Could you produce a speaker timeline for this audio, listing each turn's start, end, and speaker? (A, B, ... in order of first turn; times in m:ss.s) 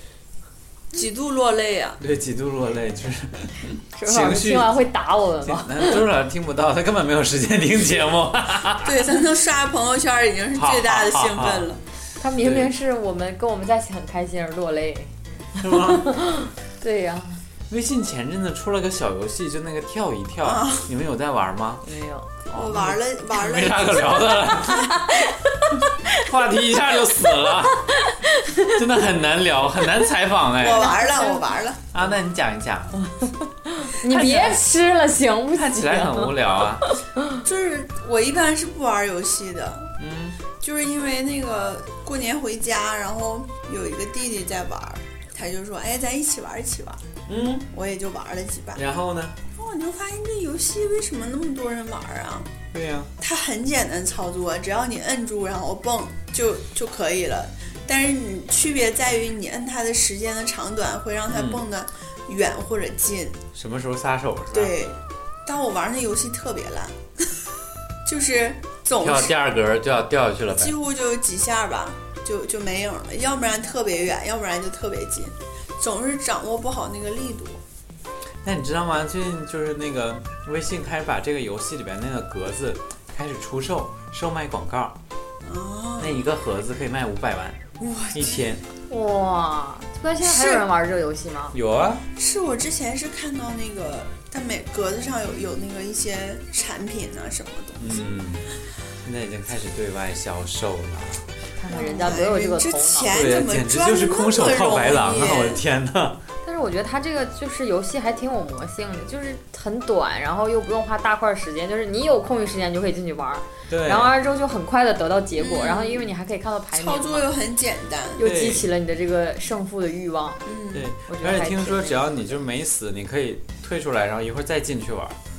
0:00.9-0:02.0 A
0:02.0-0:04.8 B
0:04.0-0:06.0 C
0:05.4-0:09.1 B
0:08.8-0:11.8 A
0:10.6-0:11.7 B
0:12.2-0:17.4 C
0:12.3-0:12.7 B
0:15.6-0:16.2 B
0:17.7-0:21.8 B
0:20.4-0:20.9 A
0:21.8-0:22.3 C
0:22.5-0:25.0 B
0:22.5-0:24.5 A
0:24.6-0:26.2 C
0:25.7-0:27.9 B
0:27.2-0:28.8 C
0:28.7-0:31.0 B
0:30.6-0:31.8 A
0:30.6-0:31.5 C
0:31.9-0:33.0 B
0:33.0-0:37.4 C
0:34.0-0:34.6 B
0:35.5-0:36.9 B
0:37.4-0:39.9 A
0:40.0-0:40.4 B
0:40.6-0:47.0 A
0:47.3-0:47.7 B
0:47.7-0:48.8 A
0:48.8-0:49.4 B
0:49.5-0:52.5 A
0:52.7-0:53.1 B
0:53.2-1:03.4 A
1:01.3-1:01.6 B
1:03.5-1:04.8 B
1:04.5-1:07.4 A
1:08.0-1:09.3 A
1:09.0-1:10.7 B
1:10.6-1:17.6 A
1:18.4-1:25.0 B
1:25.4-1:26.3 A
1:26.0-1:28.6 B
1:27.8-1:28.5 A
1:28.9-1:31.5 C
1:30.2-1:30.7 A
1:31.5-1:32.0 B
1:32.1-1:38.1 A
1:37.8-1:38.5 B
1:39.0-1:41.3 B
1:41.6-1:43.1 C
1:41.7-1:45.6 A
1:43.1-1:46.2 B
1:46.4-1:57.3 C
1:53.7-1:54.1 B
1:55.4-1:56.1 A
1:56.7-1:58.2 A
1:58.2-2:00.5 C
1:58.2-1:58.6 B
2:00.5-2:00.9 A
2:00.7-2:05.2 B
2:01.1-2:02.4 C